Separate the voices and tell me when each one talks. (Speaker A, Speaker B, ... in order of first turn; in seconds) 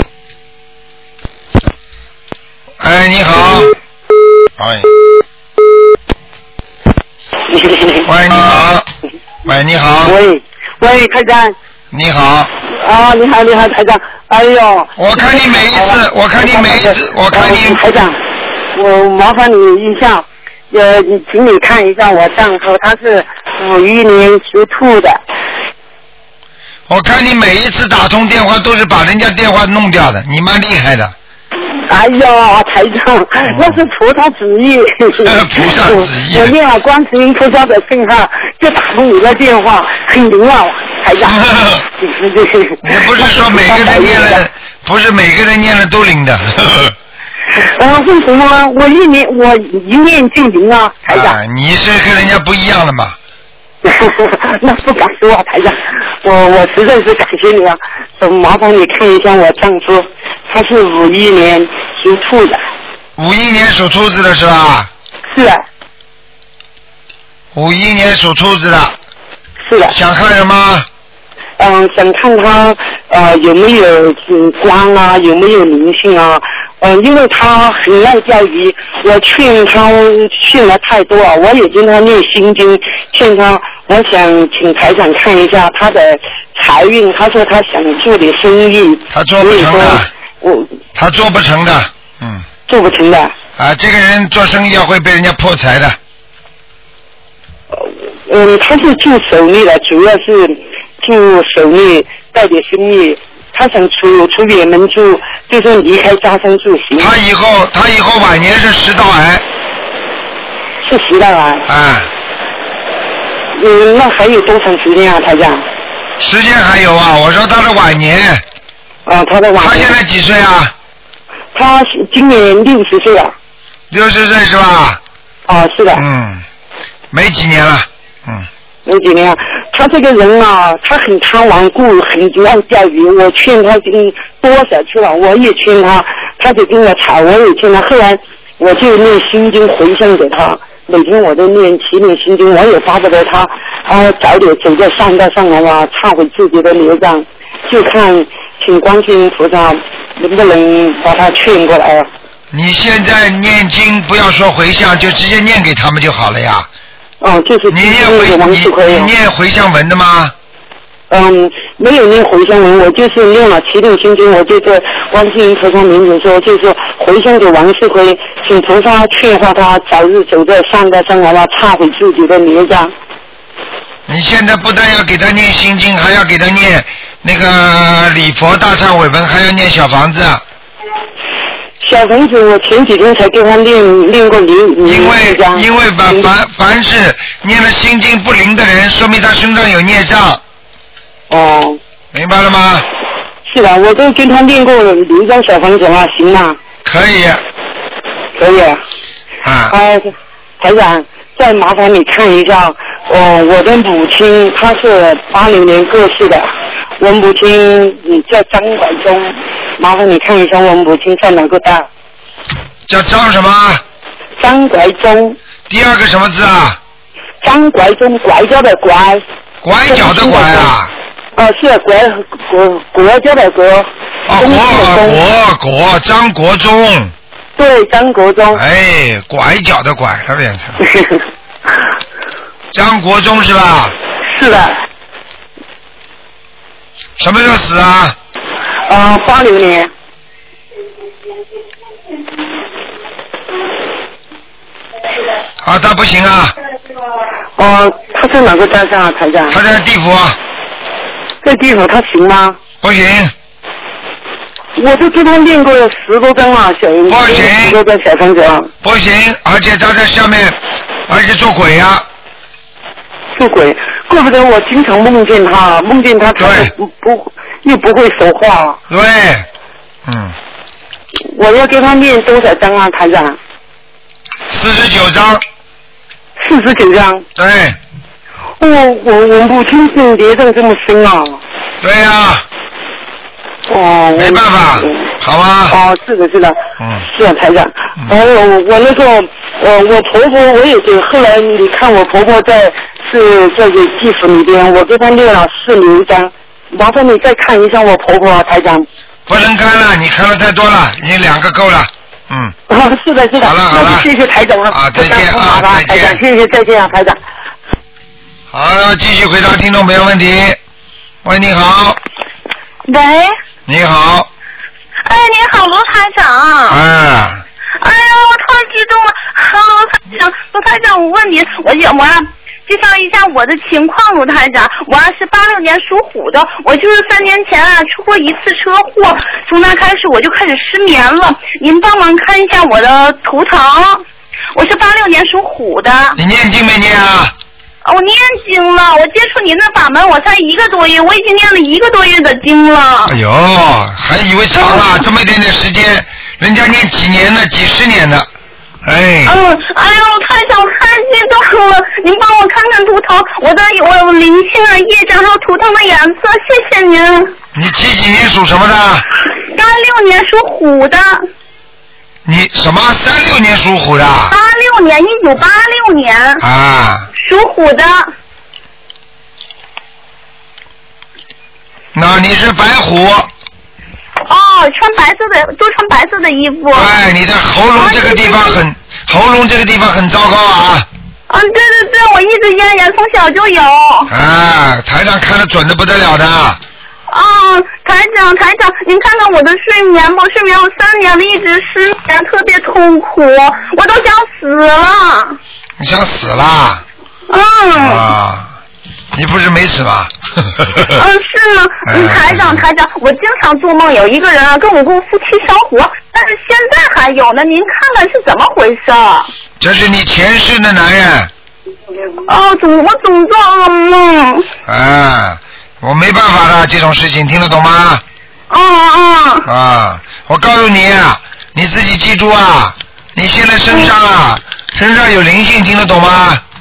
Speaker A: 2.8-3.7, 4.6-4.9, 8.0-8.9, 9.4-10.2, 11.9-12.5, 15.0-17.8, 26.9-31.1, 33.5-33.8, 35.2-36.5, 41.2-41.8, 42.8-46.9, 51.1-53.1, 63.2-64.9, 67.5-69.0, 69.9-70.9, 89.1-90.1, 90.9-92.4, 93.6-96.0, 107.0-109.4, 111.7-112.1, 116.2-118.4, 119.6-120.7, 123.9-125.0, 125.9-126.4, 127.1-128.5, 152.5-156.7, 157.7-160.3, 174.1-180.4, 184.8-190.4, 192.1-192.8, 196.8-197.4, 199.4-199.7, 212.9-213.8, 215.7-216.8, 219.6-220.9, 224.2-227.1, 228.5-230.8, 232.7-233.9, 237.2-238.2, 245.6-246.5, 249.5-250.4, 252.8-253.3, 257.1-257.8, 258.8-260.6, 261.1-262.1, 266.4-266.7, 268.9-269.4, 270.1-270.3, 274.5-275.4, 277.4-277.8, 281.8-282.4, 284.1-285.8, 286.8-287.1, 299.3-302.5, 303.4-304.1, 304.7-306.2, 308.5-310.6, 311.2-312.0, 313.7-314.3, 316.7-317.4, 336.1-337.3, 343.1-348.3, 348.8-349.4, 357.5-359.1, 362.2-364.3, 366.4-367.1, 371.9-373.3, 376.7-380.9, 384.1-386.6, 395.8-396.8, 397.7-398.5, 399.1-401.0, 401.9-402.6, 409.6-411.3, 414.6-418.0, 419.4-426.4
Speaker B: 7.5-8.1, 10.0-11.5, 12.6-18.2, 18.7-25.2, 31.9-41.4, 42.0-44.4, 47.5-51.4, 53.8-62.6, 65.3-65.6, 69.6-70.0, 71.6-90.7, 92.7-93.3, 97.7-107.1, 110.8-111.7, 113.5-115.6, 119.0-119.9, 121.5-123.3, 125.5-126.0, 128.8-152.1, 157.2-159.1, 161.1-172.9, 181.8-186.3, 191.3-191.8, 193.5-196.6, 198.4-198.8, 199.7-211.9, 214.4-215.4, 217.4-219.2, 219.9-220.7, 221.3-225.2, 227.6-228.6, 230.8-231.2, 234.3-234.8, 238.9-239.9, 247.6-249.6, 251.4-252.6, 254.8-258.7, 263.3-268.8, 271.3-273.4, 276.4-277.2, 278.6-281.4, 283.7-285.1, 285.7-298.9, 302.7-307.2
Speaker C: 312.9-313.3, 315.0-316.8, 317.8-336.2, 337.8-343.2, 344.6-344.9, 349.2-357.3, 359.5-361.2, 364.3-366.4, 367.1-368.1, 374.2-376.9, 377.8-378.6, 381.3-384.1, 387.1-395.4, 397.3-398.1, 400.9-409.3, 412.3-414.5, 418.5-419.5